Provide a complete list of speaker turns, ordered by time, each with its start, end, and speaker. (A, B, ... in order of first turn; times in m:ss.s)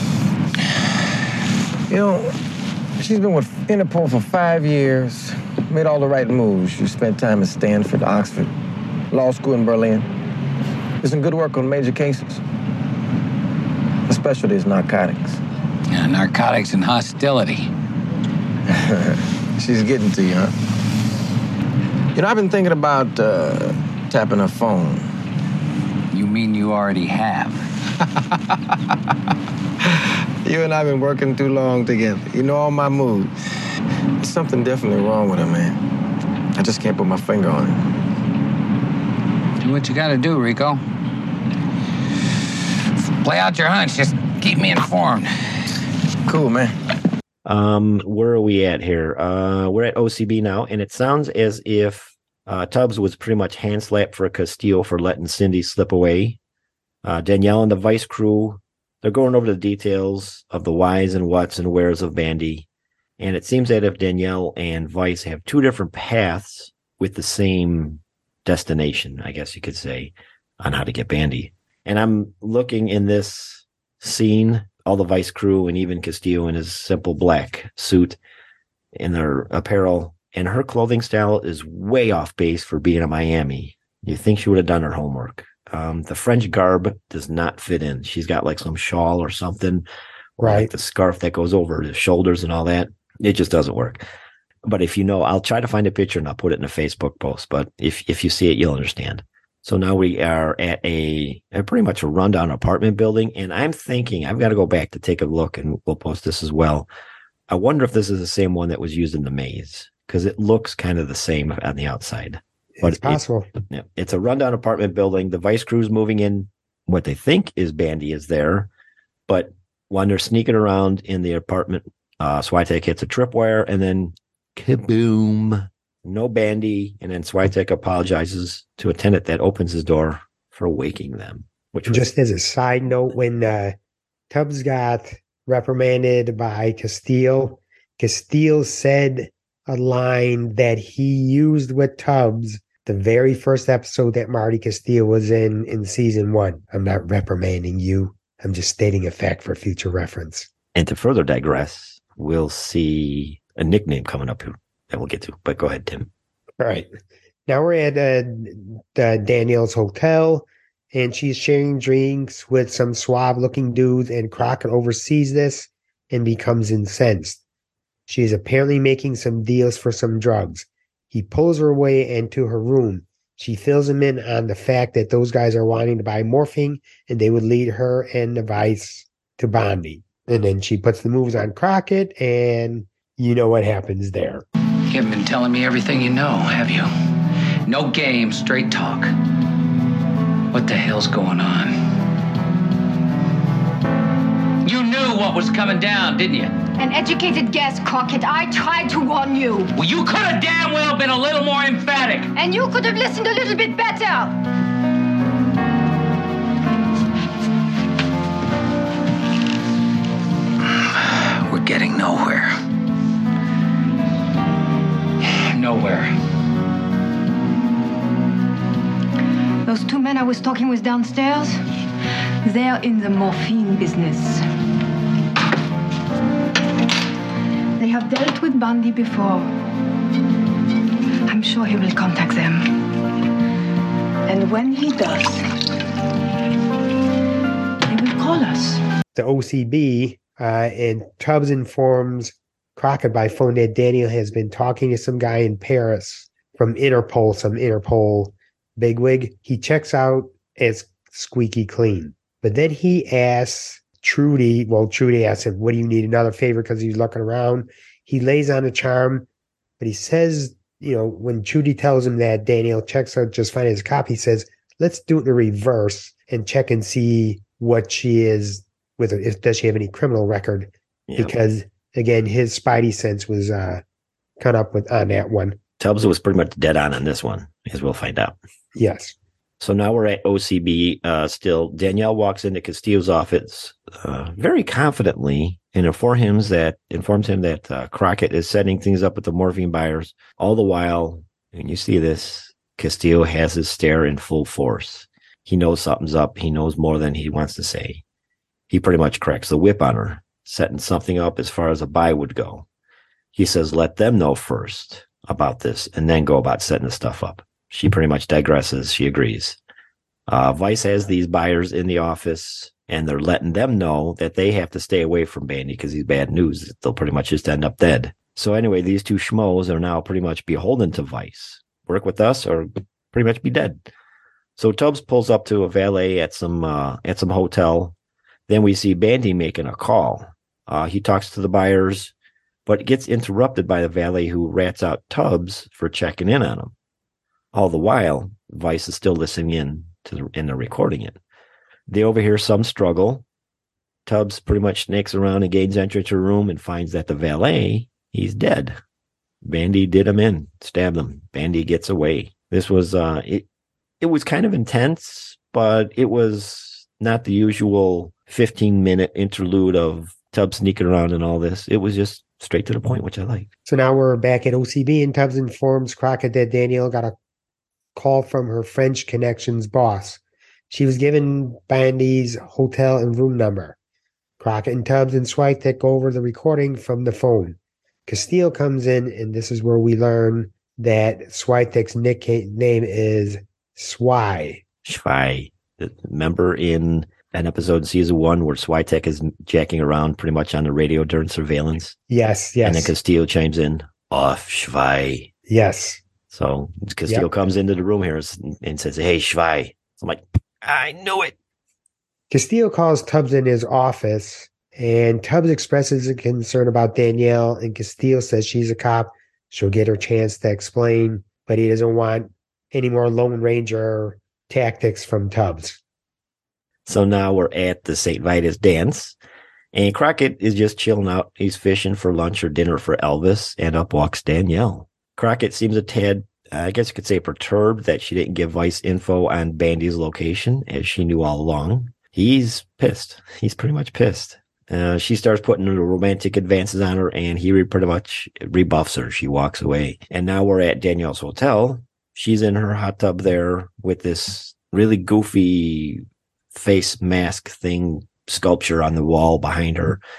0:01.9-0:02.4 A
0:03.0-0:08.5 A
0:09.1-0:10.1 A
0:11.0-0:12.4 A
0:14.1-0:15.4 A
0:15.9-0:17.7 B
0:18.7-0:20.5 A
0:22.1-0:25.1 A
0:26.1-0:27.6 B
0:30.4-0:33.3 A
0:34.2-0:35.8 A
0:36.6-0:37.8 A
0:39.6-0:40.8 B
0:43.2-0:45.3 B
0:46.3-0:46.7 A
0:47.4-0:56.4 C
0:57.0-1:02.7 C
1:03.2-1:18.2 C
1:19.0-1:29.9 C
1:30.4-1:34.0 C
1:30.4-1:30.7 D
1:34.6-1:46.9 C
1:47.5-1:58.7 C
1:52.8-1:53.5 D
1:59.3-2:12.1 C
2:11.9-2:13.8 D
2:14.3-2:30.5 D
2:30.8-2:36.1 C
2:36.6-2:36.9 D
2:37.5-2:47.4 D
2:48.1-3:04.4 D
3:04.9-3:06.9 B
3:07.7-3:09.1 B
3:10.5-3:11.8 B
3:14.6-3:16.5 B
3:16.8-3:19.7 E
3:19.8-3:22.3 B
3:22.4-3:24.3 E
3:30.7-3:32.6 B
3:35.2-3:36.1 B
3:39.7-3:41.5 E
3:42.4-3:44.4 E
3:47.8-3:49.4 E
3:51.3-3:52.8 E
3:54.3-3:55.4 E
3:57.9-3:58.8 E
3:59.2-4:19.3 D
4:19.8-4:33.8 D
4:31.1-4:31.4 C
4:34.4-4:35.6 D
4:35.8-4:38.4 C
4:38.8-4:39.2 D
4:39.6-4:58.0 C
4:58.7-5:02.7 C
5:03.3-5:09.6 C
5:10.3-5:23.9 C
5:24.6-5:28.0 C
5:28.5-5:32.1 C
5:32.7-5:36.7 C
5:37.5-5:41.2 C
5:41.9-5:43.2 C
5:44.1-5:48.8 C
5:49.4-5:53.5 C
5:54.0-6:03.5 C
6:03.7-6:07.1 D
6:08.0-6:13.8 D
6:14.4-6:24.6 D
6:24.8-6:32.0 C
6:32.1-6:32.9 D
6:32.6-6:35.3 C
6:35.5-6:36.0 D
6:36.3-6:41.4 C
6:42.3-6:55.8 D
6:56.9-6:59.2 C
6:59.7-7:30.0 C